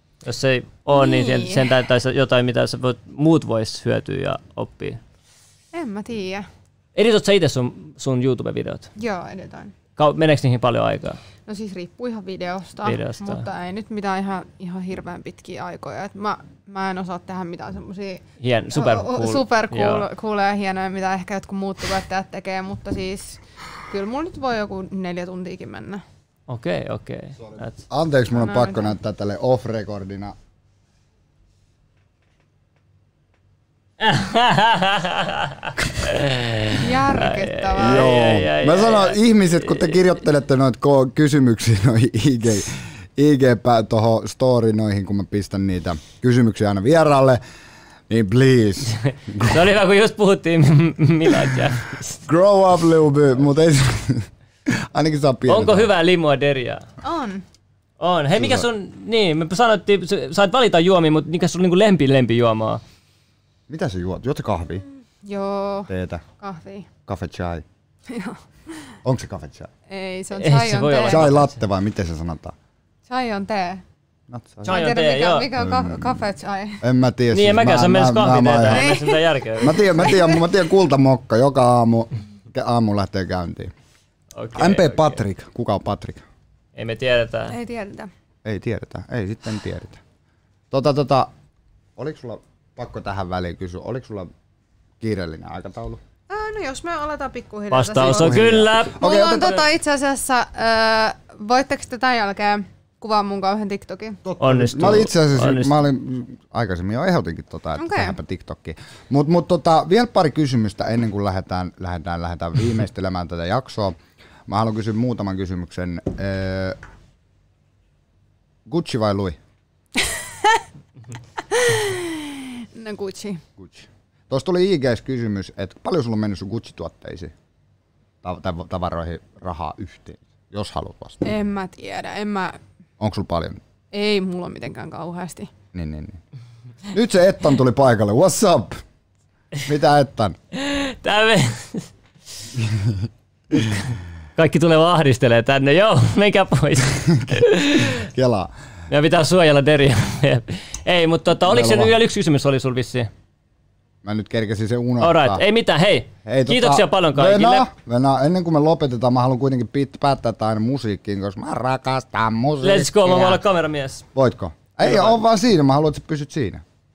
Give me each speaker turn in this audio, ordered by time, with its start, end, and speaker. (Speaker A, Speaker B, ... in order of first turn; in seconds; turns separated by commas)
Speaker A: 0.2-5.0, Speaker B: 0.9-1.7, Speaker B: 5.7-6.5, Speaker A: 6.9-8.9, Speaker B: 8.9-9.7, Speaker A: 9.9-11.2, Speaker B: 11.4-26.0, Speaker A: 12.8-13.4, Speaker A: 18.4-20.1, Speaker A: 26.5-27.8, Speaker C: 27.4-30.3, Speaker B: 28.3-28.9, Speaker A: 34.0-39.9, Speaker B: 36.7-38.2, Speaker C: 37.8-47.4, Speaker C: 48.1-49.6, Speaker A: 49.0-52.2, Speaker C: 52.2-55.9, Speaker A: 55.5-56.9, Speaker B: 57.0-57.4, Speaker A: 58.0-62.8, Speaker C: 58.3-58.6, Speaker C: 63.7-64.8, Speaker B: 65.2-65.9, Speaker C: 65.9-66.2, Speaker B: 66.4-66.9, Speaker C: 67.0-67.6, Speaker B: 68.1-68.9, Speaker C: 69.0-69.7, Speaker B: 69.9-71.3, Speaker A: 70.3-71.5, Speaker C: 71.1-72.5, Speaker B: 73.1-73.8, Speaker C: 74.3-74.8, Speaker A: 74.6-75.5, Speaker B: 74.6-76.8, Speaker C: 75.5-76.2, Speaker C: 76.8-79.0, Speaker A: 77.3-79.9, Speaker B: 78.7-80.5, Speaker C: 79.6-83.7, Speaker A: 84.3-85.2, Speaker C: 84.5-86.2, Speaker A: 86.8-87.5, Speaker B: 87.5-88.1, Speaker C: 88.4-90.0, Speaker C: 90.7-91.3, Speaker C: 92.0-94.3, Speaker C: 95.0-96.0, Speaker B: 96.3-104.2, Speaker A: 97.7-99.1, Speaker C: 98.0-99.6, Speaker C: 104.2-113.9, Speaker A: 104.4-105.8, Speaker B: 107.8-108.2, Speaker C: 114.5-116.8, Speaker C: 118.7-119.4, Speaker B: 120.0-120.6, Speaker B: 121.5-123.4, Speaker C: 123.6-127.3, Speaker C: 128.2-131.3, Speaker B: 131.2-132.6, Speaker C: 133.0-133.6, Speaker B: 133.9-135.5, Speaker C: 135.7-136.2, Speaker C: 136.9-138.8, Speaker C: 139.7-140.3, Speaker A: 140.5-141.9, Speaker C: 142.6-143.1, Speaker A: 143.5-143.8, Speaker A: 144.3-148.0, Speaker C: 147.1-148.5, Speaker A: 148.9-153.1, Speaker C: 151.4-151.9, Speaker C: 154.0-155.4, Speaker A: 155.0-157.7, Speaker C: 156.2-163.4, Speaker A: 162.6-164.0, Speaker C: 164.1-166.6, Speaker A: 164.8-165.2